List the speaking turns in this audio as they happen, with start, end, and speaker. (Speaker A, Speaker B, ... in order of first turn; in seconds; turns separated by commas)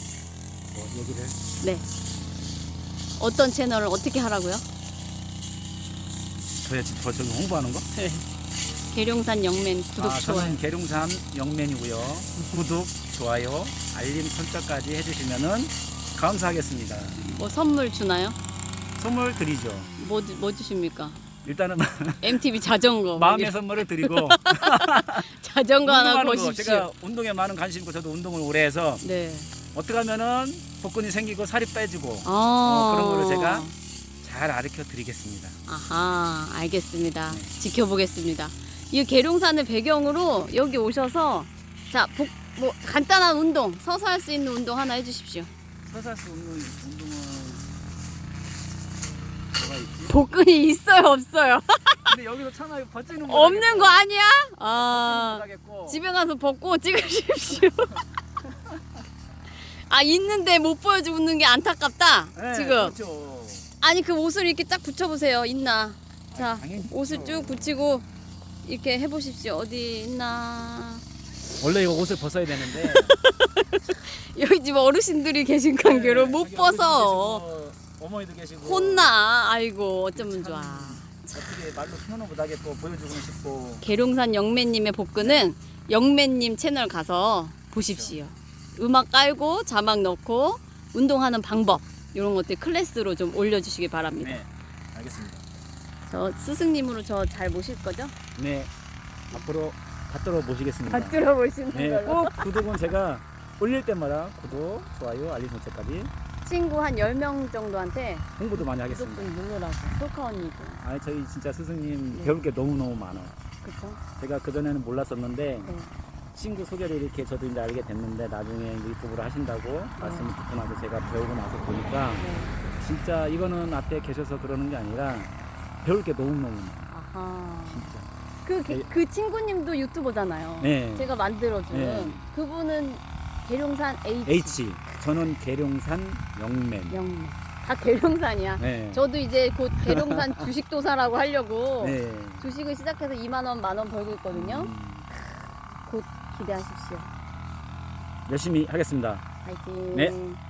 Speaker A: 0.7-1.4, Speaker B: 1.6-1.9, Speaker B: 3.2-4.6, Speaker A: 6.6-7.9, Speaker B: 7.9-8.2, Speaker B: 8.9-10.6, Speaker A: 10.0-17.2, Speaker B: 17.2-18.4, Speaker A: 19.0-19.9, Speaker B: 20.0-21.2, Speaker A: 21.4-22.4, Speaker B: 22.2-26.9, Speaker A: 23.1-25.2, Speaker A: 25.8-29.0, Speaker B: 29.0-29.5, Speaker A: 29.7-33.7, Speaker B: 32.2-33.7, Speaker A: 34.2-35.6, Speaker B: 35.7-45.5, Speaker A: 37.3-37.5, Speaker A: 45.9-47.6, Speaker A: 49.5-50.1, Speaker B: 50.0-52.1, Speaker A: 52.1-54.0, Speaker B: 53.2-58.1, Speaker A: 54.7-56.0, Speaker A: 57.5-58.0, Speaker B: 59.7-63.0, Speaker A: 62.3-63.7, Speaker B: 63.8-68.0, Speaker A: 66.3-67.8, Speaker B: 68.6-71.0, Speaker A: 71.6-73.2, Speaker B: 72.7-77.4, Speaker A: 75.8-79.1, Speaker B: 78.6-81.6, Speaker A: 80.1-83.8, Speaker B: 83.8-94.4, Speaker A: 85.2-85.5, Speaker A: 87.8-88.2, Speaker A: 94.2-95.5, Speaker B: 96.0-98.1, Speaker A: 98.3-98.7, Speaker A: 99.3-101.2, Speaker B: 100.9-102.6, Speaker A: 101.7-106.1, Speaker B: 106.4-110.8, Speaker A: 108.4-109.3, Speaker A: 110.8-113.3, Speaker B: 113.6-114.0, Speaker A: 114.2-115.7, Speaker B: 115.6-115.9, Speaker A: 116.3-125.3, Speaker B: 120.0-120.3, Speaker B: 122.2-122.5, Speaker A: 125.8-126.9, Speaker B: 126.9-127.9, Speaker A: 127.7-128.1, Speaker B: 128.4-134.6, Speaker A: 130.6-131.1, Speaker A: 131.7-132.2, Speaker A: 134.2-137.0, Speaker B: 136.9-147.1, Speaker A: 138.6-139.1, Speaker A: 139.9-140.5, Speaker A: 141.8-142.4, Speaker A: 144.3-145.1, Speaker A: 148.3-149.2, Speaker B: 149.4-150.4